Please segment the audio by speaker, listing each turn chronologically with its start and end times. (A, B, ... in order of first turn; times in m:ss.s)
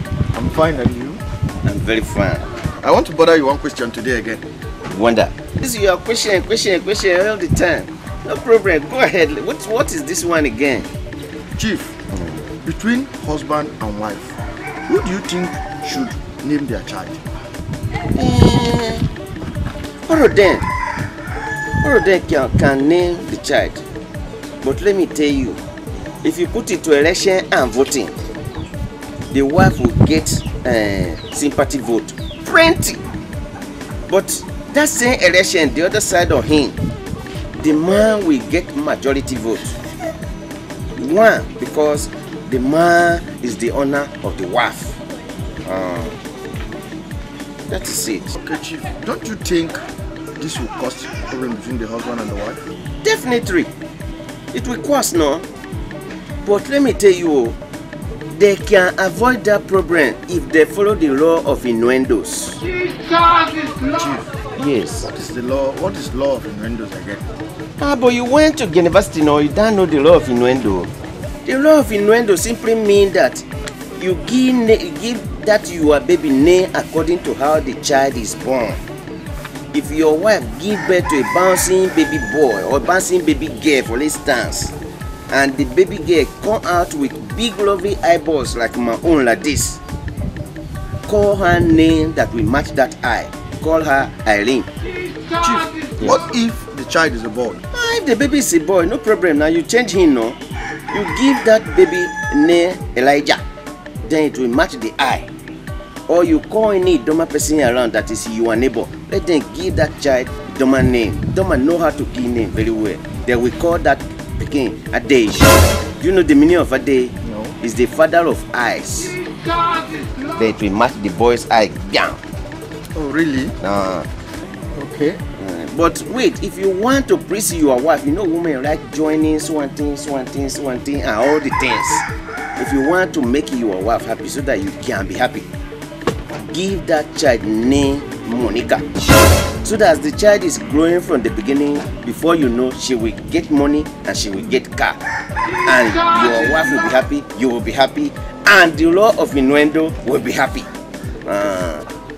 0:00.3-0:01.2 A
0:01.6-0:02.5 B
0:02.8-0:04.4 A
0:04.9-0:10.9 B
0:11.6-0:12.0 A
0:12.1-0:12.4 B
0:12.6-0:17.2 A
0:18.2-0:19.1 B
0:20.1-0:20.7 B
0:21.8-0:23.8 B
0:24.6-0:25.6 B
0:26.2-0:28.2 B
0:29.3-0:33.0 B
0:34.1-0:36.8 B
0:37.6-0:39.8 B
0:41.0-0:45.0 B
0:45.6-0:46.2 B
0:47.7-0:48.3 B
0:48.3-0:49.8 A
0:50.4-0:52.6 A
0:53.0-0:53.7 B
0:54.5-0:55.4 B
0:56.4-0:57.6 B
0:58.3-1:02.6 B
1:03.8-1:04.3 A
1:04.6-1:05.1 B
1:05.1-1:07.2 A
1:07.8-1:10.9 B
1:11.4-1:13.4 B
1:14.0-1:18.8 B
1:19.7-1:24.7 B
1:25.3-1:29.8 B
1:31.0-1:34.7 B
1:35.4-1:37.6 A
1:37.7-1:40.4 B
1:40.9-1:43.4 B
1:44.0-1:45.3 B
1:46.1-1:59.2 B
1:57.2-1:57.6 A
2:00.3-2:02.2 B
2:02.9-2:03.5 A
2:03.6-2:04.1 B
2:04.7-2:05.2 A
2:05.4-2:12.0 B
2:12.6-2:15.5 B
2:16.4-2:18.8 B
2:19.6-2:25.0 B
2:25.6-2:30.7 B
2:31.2-2:31.9 B